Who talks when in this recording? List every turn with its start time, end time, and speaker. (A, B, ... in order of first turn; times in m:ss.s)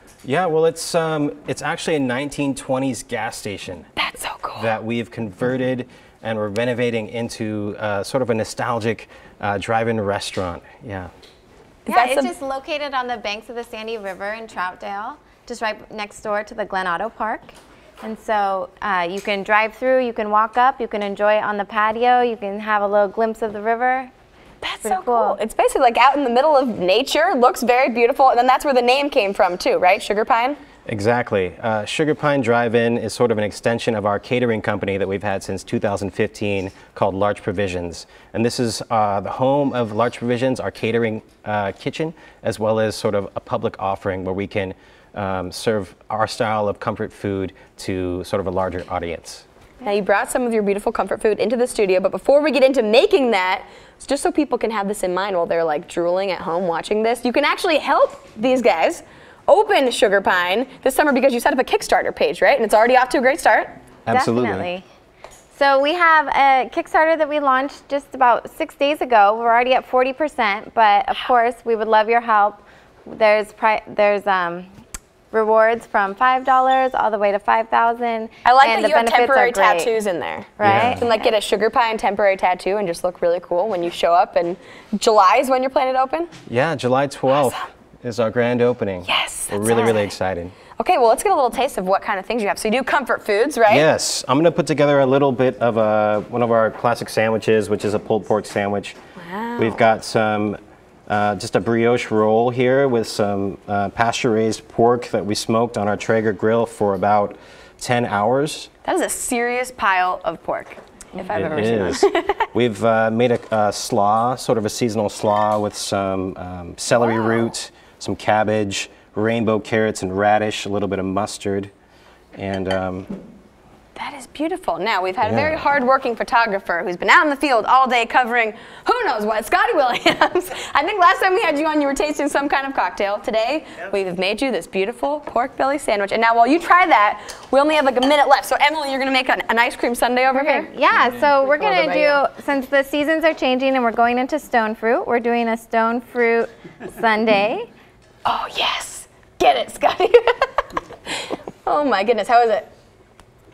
0:00.2-0:03.9 A
0:04.0-0:04.7 B
0:04.6-0:11.1 A
0:11.9-0:12.3 B
0:11.9-0:24.1 C
0:24.6-0:30.6 B
0:24.8-0:25.4 C
0:30.9-0:49.4 A
0:49.8-1:03.7 B
1:04.1-1:04.7 A
1:04.1-1:04.8 C
1:05.5-1:14.7 C
1:15.3-1:20.0 C
1:18.4-1:26.3 B
1:20.6-1:21.3 C
1:20.6-1:21.0 A
1:26.5-1:30.6 A
1:27.3-1:27.7 B
1:29.1-1:30.1 B
1:30.8-1:33.9 B
1:33.7-1:39.0 A
1:39.2-1:39.8 B
1:39.6-1:48.7 A
1:48.8-1:52.4 B
1:51.3-2:01.7 A
1:57.0-1:57.4 B
2:02.4-2:03.2 A
2:04.0-2:20.7 B
2:05.2-2:05.6 A
2:20.3-2:27.7 C
2:21.4-2:22.2 B
2:28.2-2:32.7 B